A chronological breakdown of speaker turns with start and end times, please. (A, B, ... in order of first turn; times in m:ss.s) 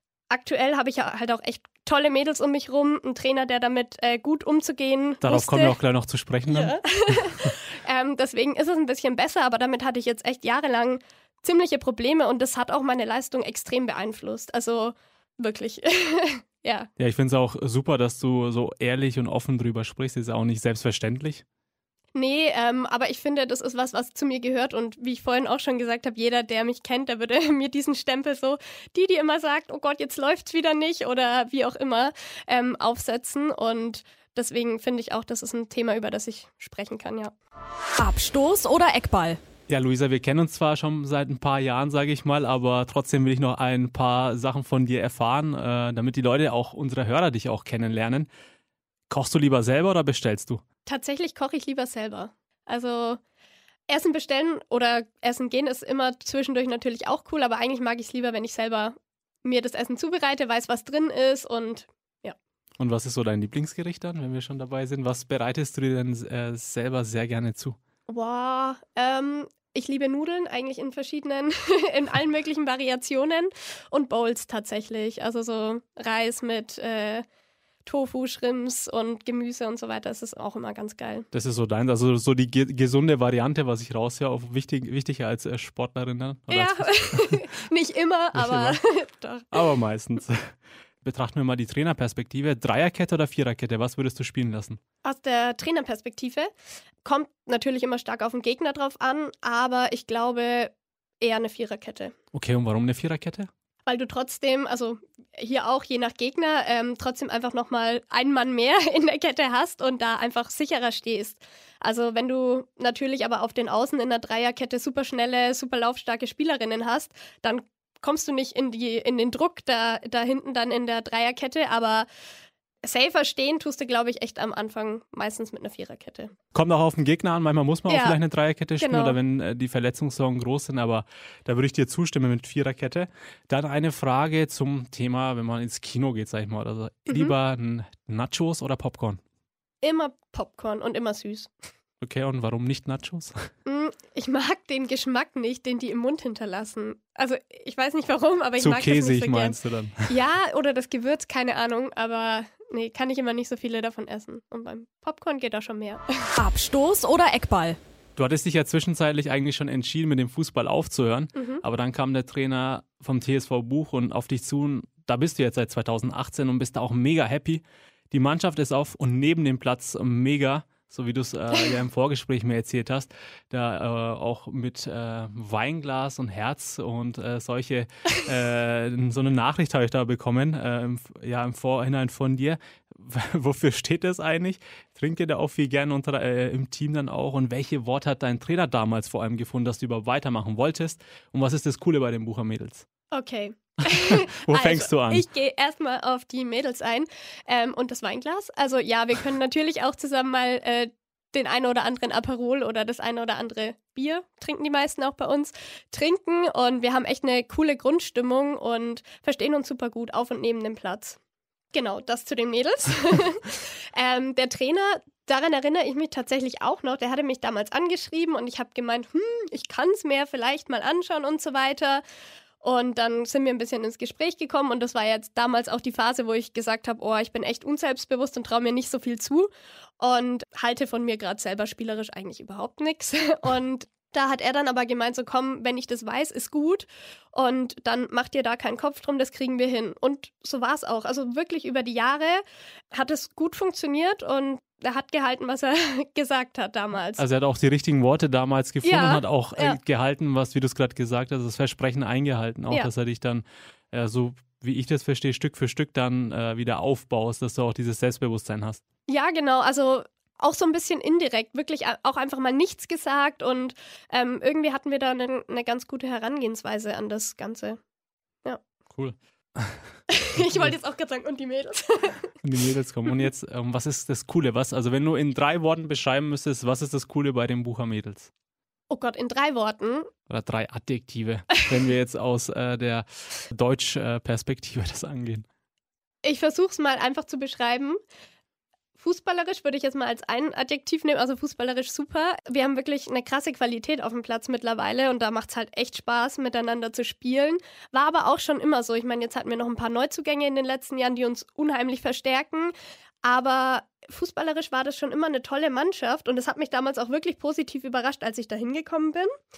0:00.3-0:05.8 A
0:05.2-0:07.5 B
0:06.5-0:16.9 A
0:17.0-0:21.4 B
0:22.1-0:37.4 A
0:38.0-0:39.4 C
0:39.7-0:48.3 B
0:49.1-0:50.6 B
0:50.9-0:53.2 A
0:53.9-1:02.4 A
1:02.8-1:07.8 B
1:08.1-1:17.2 A
1:17.8-1:21.3 A
1:21.3-1:27.4 B
1:26.5-1:29.7 A
1:28.4-1:28.8 B
1:29.5-1:34.8 B
1:35.0-1:36.5 A
1:37.0-1:42.1 A
1:42.3-1:43.5 B
1:43.8-2:02.1 A
2:02.8-2:06.3 A
2:06.5-2:19.2 B
2:07.9-2:08.2 A
2:08.8-2:09.2 A
2:17.1-2:17.4 A
2:19.8-2:21.5 A
2:22.0-2:23.5 B
2:23.7-2:29.6 A
2:28.6-2:30.2 B
2:30.1-2:36.4 A
2:36.4-2:37.8 C
2:38.2-3:12.9 B
2:41.4-2:41.6 A
3:13.1-3:31.2 A
3:13.9-3:15.2 B
3:31.7-3:42.0 A
3:42.6-4:07.2 A
4:07.2-4:18.8 B
4:08.8-4:09.8 A
4:19.1-4:27.8 A
4:28.9-4:29.8 B
4:30.1-4:32.3 A
4:30.4-4:30.7 B
4:32.4-4:38.3 B
4:38.9-4:40.1 A
4:40.3-4:45.4 B
4:46.2-4:48.0 A
4:49.0-5:09.3 A